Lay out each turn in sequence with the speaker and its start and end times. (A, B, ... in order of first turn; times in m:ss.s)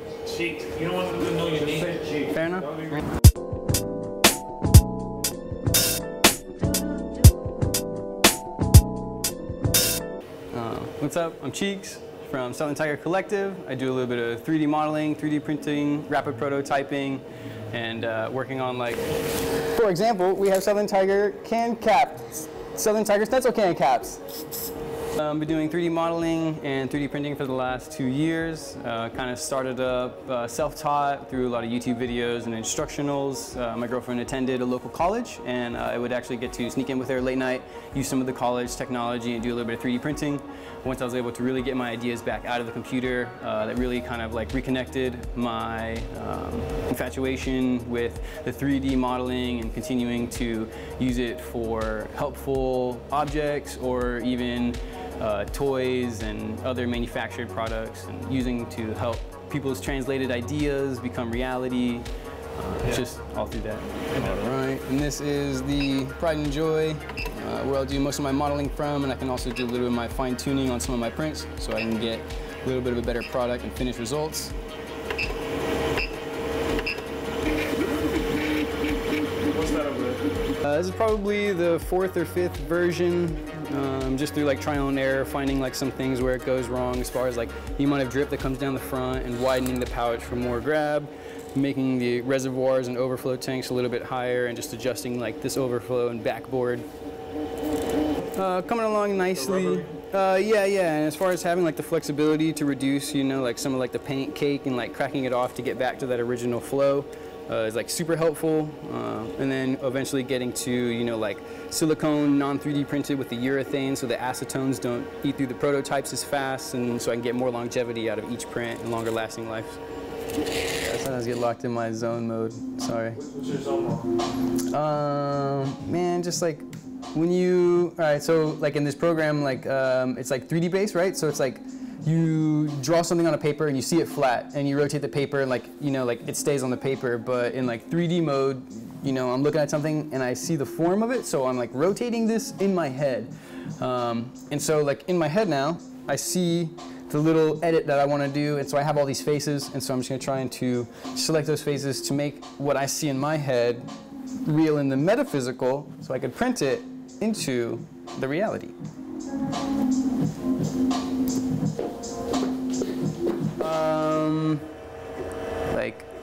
0:00.2-0:02.8 A
0:02.2-0:03.0 B
0:10.5-0:24.3 B
0:25.1-1:14.5 B
1:19.5-1:20.2 A
1:20.6-1:36.9 B
1:38.3-1:59.8 B
1:39.5-1:39.8 A
2:00.8-2:03.3 B
2:03.2-2:04.0 A
2:04.7-2:33.9 B
2:34.4-2:38.7 B
2:43.6-2:44.7 B
2:45.7-2:46.1 B